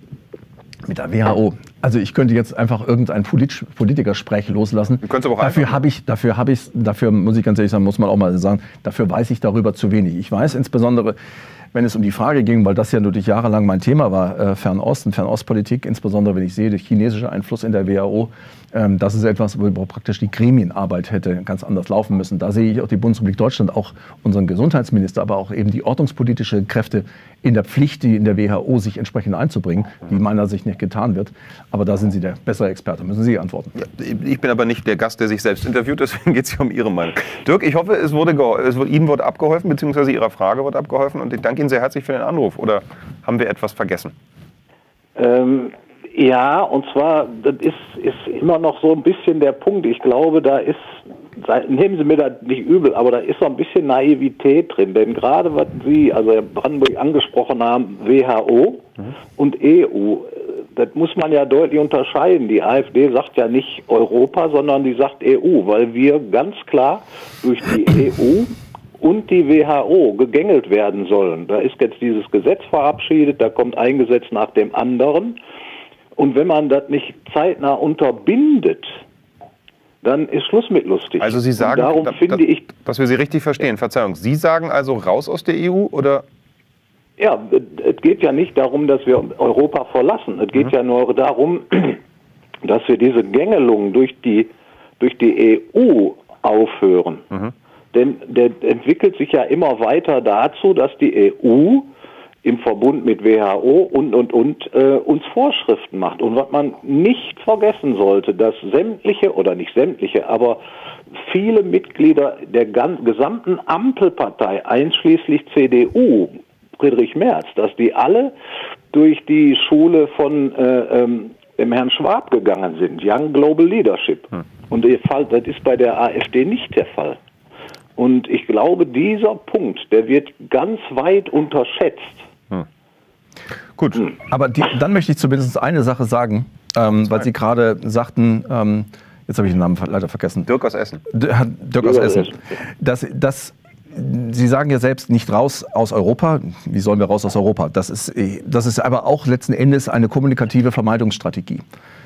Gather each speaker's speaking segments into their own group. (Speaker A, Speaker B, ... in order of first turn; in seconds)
Speaker A: 0.8-11.2, 11.7-33.7, 134.3-140.5, 141.1-151.6
Speaker B: 5.0-5.8, 33.8-44.1, 81.2-86.2, 133.8-134.1, 140.4-141.0
Speaker C: 45.1-75.4, 76.2-79.0, 80.0-82.7, 87.2-92.0, 92.6-97.2, 97.9-101.9, 102.4-110.6, 111.1-118.3, 118.9-127.2, 128.0-132.2, 141.8-142.4